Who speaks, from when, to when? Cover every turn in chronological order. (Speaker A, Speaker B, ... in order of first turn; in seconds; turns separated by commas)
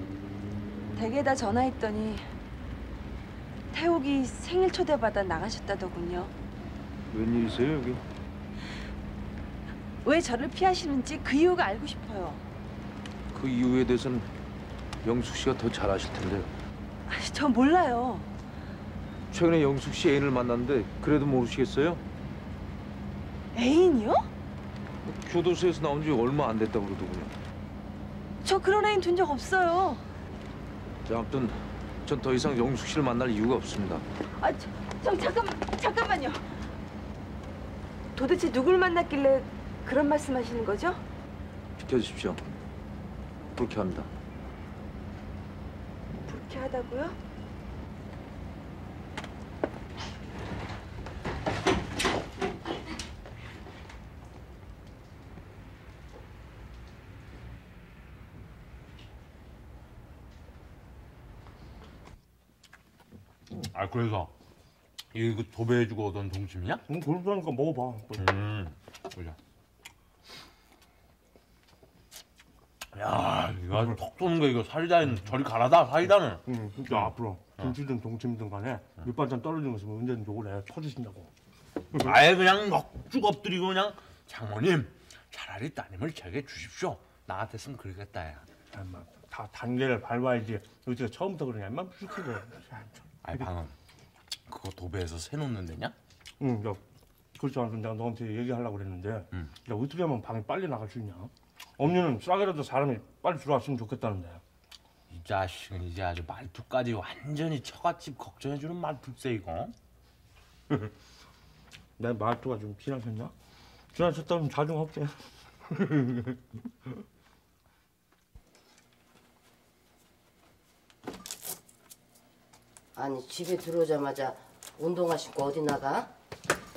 Speaker A: 0.9-2.2, Speaker A: 3.7-6.3, Speaker B: 7.1-8.0, Speaker A: 10.0-12.4, Speaker B: 13.3-14.3, Speaker B: 15.0-16.5, Speaker A: 17.1-18.3, Speaker B: 19.3-22.0, Speaker A: 23.5-24.2, Speaker B: 25.1-27.3, Speaker A: 28.4-30.0, Speaker B: 31.1-34.0, Speaker A: 34.4-36.4, Speaker A: 38.1-41.0, Speaker B: 41.8-42.4, Speaker B: 43.6-44.1, Speaker A: 46.3-47.2, Speaker C: 63.6-64.3, Speaker C: 65.1-66.8, Speaker D: 66.9-68.3, Speaker C: 68.2-69.4, Speaker C: 72.9-76.4, Speaker D: 76.5-81.3, Speaker C: 82.0-88.5, Speaker D: 88.7-93.5, Speaker C: 93.2-93.8, Speaker C: 94.5-96.0, Speaker D: 96.4-96.8, Speaker D: 97.4-104.4, Speaker C: 105.1-109.8, Speaker D: 112.0-113.3, Speaker D: 113.9-116.4, Speaker E: 123.0-126.1